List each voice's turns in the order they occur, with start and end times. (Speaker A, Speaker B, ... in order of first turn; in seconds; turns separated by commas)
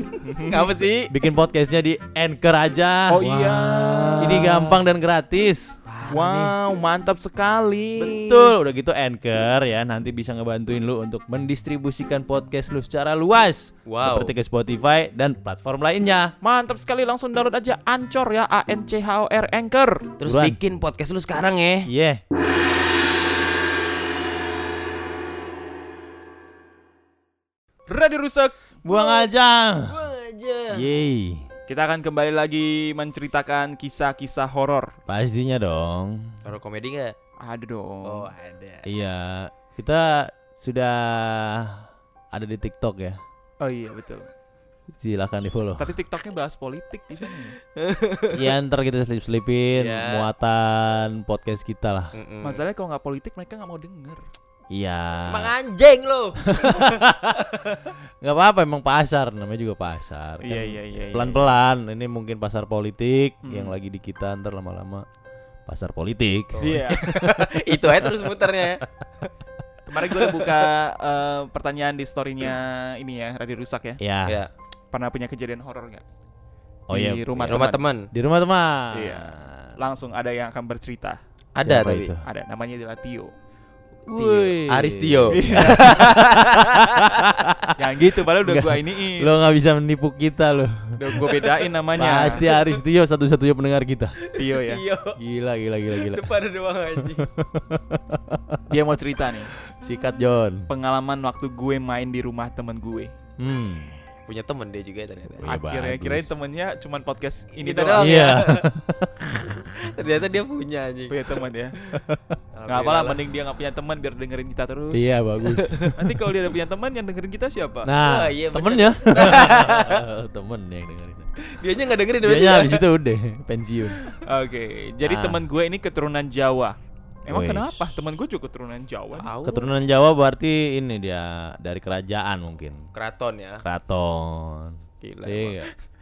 Speaker A: 0.2-0.7, Speaker B: 0.4-1.1, Speaker C: 1.1-3.6, Speaker A: 3.1-4.5, Speaker B: 3.6-4.8, Speaker C: 4.2-5.8, Speaker B: 5.8-6.5, Speaker A: 6.0-8.6, Speaker C: 8.0-16.3, Speaker B: 13.8-14.3, Speaker A: 16.4-20.1, Speaker B: 20.2-21.9, Speaker C: 20.2-20.6, Speaker C: 21.9-22.2, Speaker A: 27.9-28.6, Speaker C: 28.8-30.0, Speaker B: 28.9-31.0, Speaker C: 30.7-31.4, Speaker A: 31.7-34.9, Speaker C: 35.1-36.4, Speaker B: 36.4-37.1, Speaker A: 37.4-38.3, Speaker B: 38.0-38.9, Speaker C: 38.8-43.2, Speaker A: 43.6-44.3, Speaker C: 45.0-45.9, Speaker A: 45.8-47.6, Speaker B: 47.8-48.5, Speaker C: 48.3-52.1, Speaker B: 49.7-50.3, Speaker B: 52.1-52.6, Speaker A: 52.4-54.2, Speaker C: 54.7-55.5, Speaker B: 55.3-57.4, Speaker C: 56.5-57.5, Speaker C: 58.2-65.0, Speaker A: 60.4-61.5, Speaker A: 63.4-63.8, Speaker C: 65.7-68.0, Speaker B: 66.5-68.8, Speaker A: 66.6-67.0, Speaker A: 69.8-74.0, Speaker B: 70.1-70.7, Speaker C: 74.0-74.4, Speaker B: 74.2-74.5, Speaker A: 74.9-76.0, Speaker C: 76.9-79.7, Speaker A: 76.9-77.8, Speaker B: 77.5-78.1, Speaker A: 78.9-81.2, Speaker B: 81.5-82.1, Speaker C: 81.6-82.2, Speaker A: 82.2-83.3, Speaker C: 84.1-85.9, Speaker A: 84.2-84.6, Speaker B: 84.7-87.2, Speaker A: 85.3-86.4, Speaker C: 86.7-87.7, Speaker A: 87.8-89.3, Speaker C: 88.4-90.7, Speaker A: 91.0-92.4, Speaker C: 92.0-94.2, Speaker B: 92.1-92.8, Speaker B: 94.2-95.2, Speaker A: 94.3-94.8, Speaker C: 95.2-96.3, Speaker B: 95.9-97.3, Speaker C: 97.0-98.6, Speaker A: 98.7-99.5, Speaker C: 99.8-100.7, Speaker A: 100.7-103.1, Speaker C: 103.4-104.0, Speaker B: 104.3-105.5, Speaker C: 105.4-106.3, Speaker A: 105.4-108.3, Speaker B: 107.6-108.7, Speaker C: 108.0-109.5, Speaker B: 109.6-111.2, Speaker A: 111.1-111.9, Speaker C: 111.9-112.2, Speaker B: 112.5-113.2, Speaker A: 112.7-115.2, Speaker C: 114.9-116.1, Speaker A: 115.9-117.9, Speaker C: 117.8-121.3, Speaker B: 118.0-120.0, Speaker B: 121.4-122.9, Speaker C: 122.2-124.0, Speaker A: 123.9-129.3, Speaker C: 125.0-125.4, Speaker C: 127.3-127.8, Speaker B: 129.1-129.8, Speaker C: 129.4-132.9, Speaker B: 132.9-133.6, Speaker C: 133.6-135.7, Speaker B: 135.0-135.6